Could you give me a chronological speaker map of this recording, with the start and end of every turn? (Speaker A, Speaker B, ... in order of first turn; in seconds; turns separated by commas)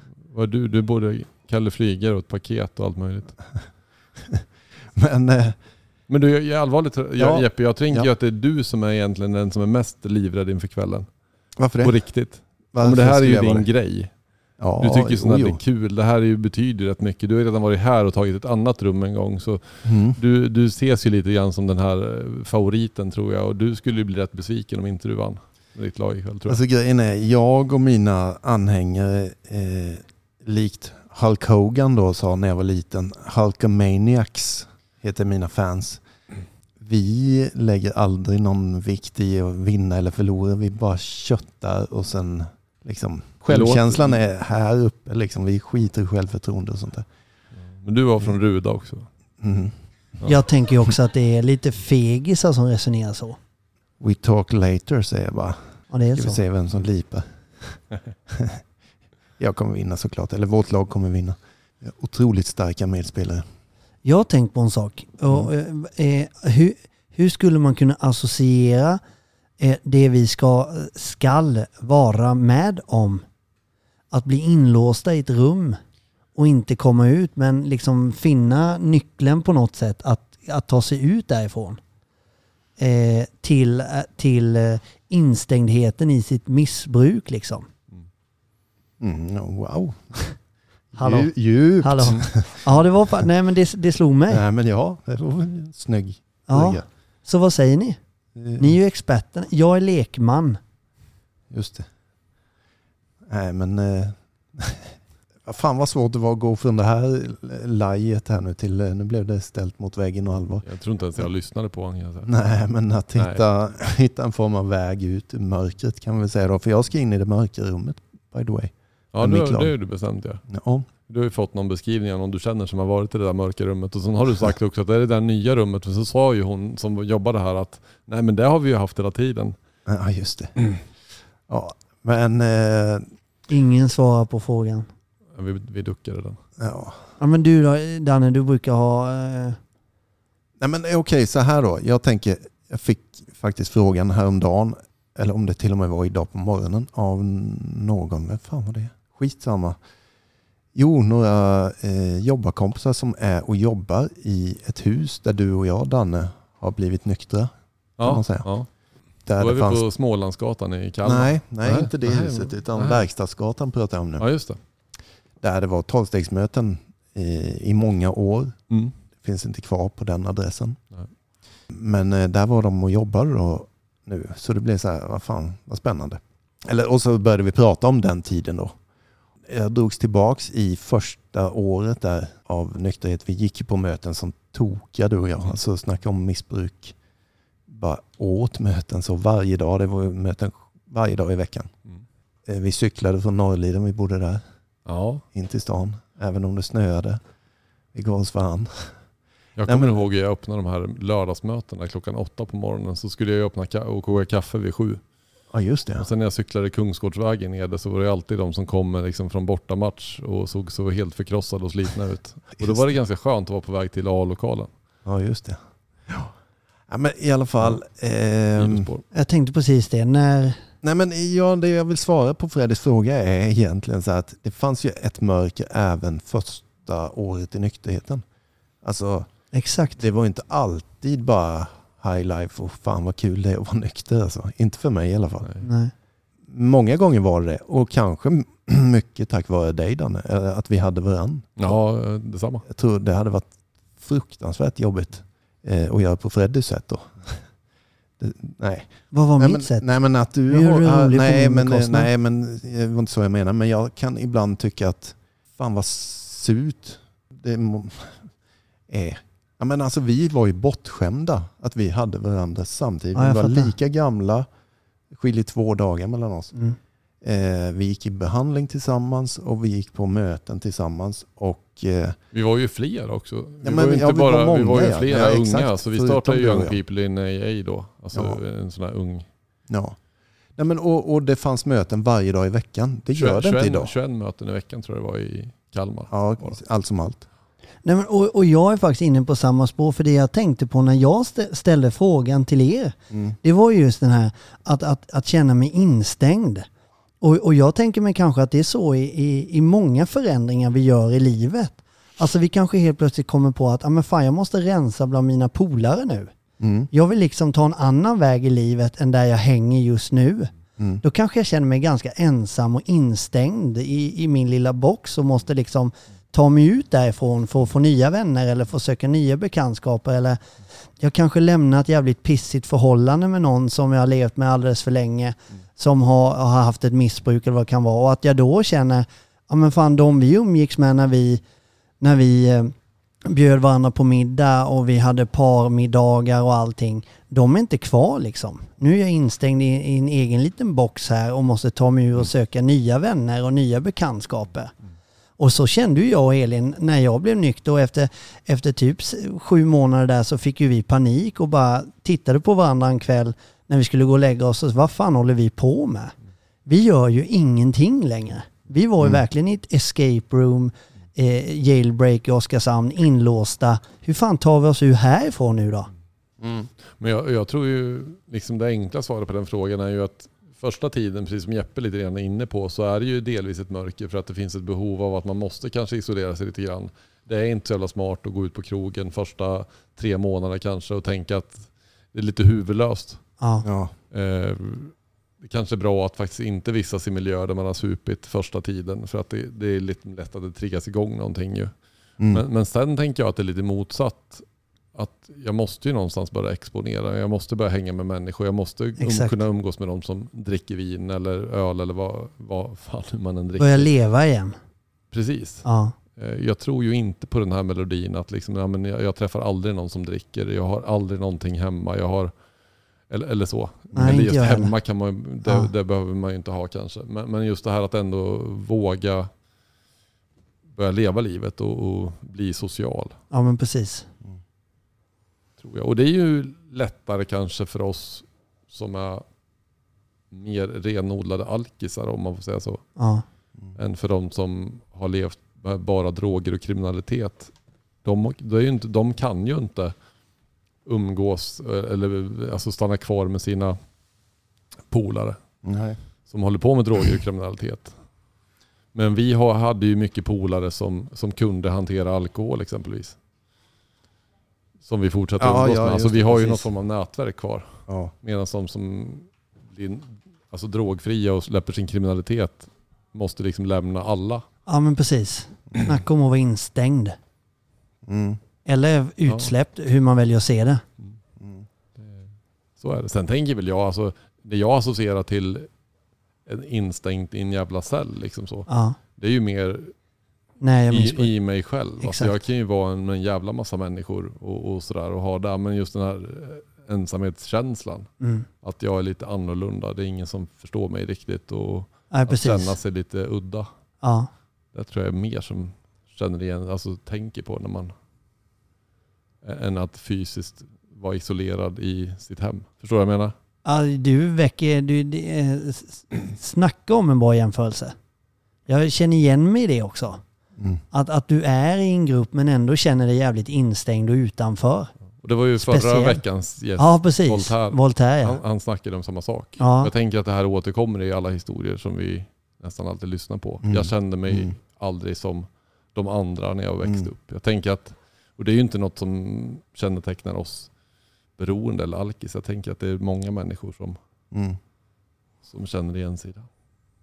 Speaker A: 0.3-3.3, Speaker B: 4.2-5.5, Speaker A: 6.1-11.1, Speaker B: 7.2-8.1, Speaker B: 11.6-12.0, Speaker A: 11.8-14.1, Speaker B: 12.7-13.7, Speaker B: 14.6-15.6, Speaker A: 14.8-26.6, Speaker B: 19.8-20.2, Speaker B: 26.5-36.0, Speaker B: 36.8-47.1, Speaker A: 43.5-44.1, Speaker A: 47.7-49.1, Speaker B: 49.4-49.7, Speaker C: 50.2-53.4, Speaker B: 54.0-58.6, Speaker C: 55.9-56.4, Speaker B: 59.4-63.4, Speaker C: 64.0-69.0, Speaker C: 69.6-73.2, Speaker C: 74.1-75.8, Speaker C: 76.3-81.8, Speaker C: 82.8-87.7, Speaker B: 89.0-90.4, Speaker B: 90.9-92.8, Speaker C: 91.0-94.4, Speaker B: 94.3-96.8, Speaker C: 96.5-98.0, Speaker B: 98.3-98.7, Speaker C: 98.6-100.6, Speaker B: 101.5-101.9, Speaker B: 103.2-110.7, Speaker A: 110.6-112.4, Speaker B: 112.2-119.7, Speaker A: 113.2-113.4, Speaker A: 119.1-120.5, Speaker B: 120.5-120.9, Speaker A: 121.0-129.6, Speaker B: 129.9-130.6, Speaker B: 131.5-133.1, Speaker C: 133.5-134.9, Speaker A: 135.3-136.4, Speaker B: 136.6-137.0, Speaker C: 137.2-139.6, Speaker B: 140.6-149.8, Speaker B: 150.7-158.5, Speaker A: 158.0-158.7, Speaker B: 159.2-159.8, Speaker A: 159.2-163.1, Speaker B: 161.0-164.3, Speaker A: 164.2-164.6, Speaker B: 165.4-168.6, Speaker B: 169.2-170.8, Speaker B: 171.7-178.8, Speaker B: 179.4-186.9, Speaker B: 187.7-191.7, Speaker B: 192.4-194.4, Speaker A: 194.8-195.2, Speaker B: 195.3-197.2, Speaker B: 197.9-198.9, Speaker A: 199.6-205.0, Speaker B: 199.7-200.0, Speaker B: 205.5-206.1, Speaker A: 206.0-214.7, Speaker B: 215.0-216.3, Speaker B: 216.9-218.9, Speaker A: 218.5-219.0, Speaker C: 219.1-220.6, Speaker B: 220.8-228.2, Speaker B: 228.8-235.5, Speaker C: 229.5-230.0, Speaker C: 235.6-235.9, Speaker B: 236.5-241.8, Speaker A: 241.6-242.6, Speaker B: 242.7-247.5, Speaker B: 248.2-258.3, Speaker C: 249.1-249.8, Speaker C: 250.5-252.1, Speaker B: 258.9-264.4, Speaker C: 263.1-263.7, Speaker B: 265.1-266.5, Speaker B: 267.2-272.1, Speaker A: 272.3-279.2, Speaker B: 273.6-276.8, Speaker B: 278.1-278.4, Speaker B: 279.7-280.0, Speaker B: 280.6-283.9, Speaker A: 283.1-286.6, Speaker B: 286.1-287.2, Speaker C: 287.8-296.7, Speaker B: 293.1-293.4, Speaker C: 297.2-306.3, Speaker B: 306.6-306.9, Speaker C: 306.9-310.5, Speaker B: 310.8-311.0, Speaker C: 311.0-320.4, Speaker C: 321.0-331.4, Speaker C: 332.0-344.7, Speaker C: 345.4-356.1, Speaker C: 356.6-365.9, Speaker B: 366.4-366.7, Speaker A: 367.0-383.3, Speaker C: 383.4-383.6, Speaker B: 383.6-383.9, Speaker A: 384.1-391.7, Speaker A: 392.3-403.9, Speaker C: 399.0-399.4, Speaker C: 403.6-404.5, Speaker A: 405.1-412.3, Speaker C: 405.6-405.9, Speaker A: 413.1-419.3, Speaker C: 413.9-414.7, Speaker A: 420.7-423.2, Speaker C: 423.3-424.1, Speaker A: 425.6-429.2, Speaker A: 430.3-432.9, Speaker C: 433.0-433.2, Speaker A: 433.8-437.5, Speaker A: 438.0-439.9, Speaker A: 440.8-443.8, Speaker A: 444.9-445.4, Speaker B: 445.6-446.0, Speaker A: 446.3-448.0, Speaker A: 448.9-453.2, Speaker A: 454.8-464.4, Speaker B: 455.4-456.7, Speaker C: 464.7-467.2, Speaker B: 468.0-468.4, Speaker C: 468.6-470.8, Speaker B: 471.4-471.6, Speaker A: 472.0-475.7, Speaker A: 476.4-479.9, Speaker C: 478.7-479.0, Speaker C: 480.6-481.3, Speaker A: 480.9-493.7, Speaker C: 482.0-482.4, Speaker C: 488.2-488.4, Speaker C: 492.1-492.8, Speaker C: 494.0-494.3, Speaker A: 494.7-497.9, Speaker A: 499.4-503.3, Speaker C: 503.6-507.9, Speaker C: 508.7-510.2, Speaker B: 510.6-510.8, Speaker C: 510.9-514.9, Speaker A: 515.2-530.7, Speaker C: 515.6-516.2, Speaker C: 516.8-518.4, Speaker C: 519.6-519.9, Speaker B: 523.6-524.5, Speaker B: 526.8-527.1, Speaker A: 531.4-534.0, Speaker B: 534.3-534.6, Speaker A: 535.4-536.5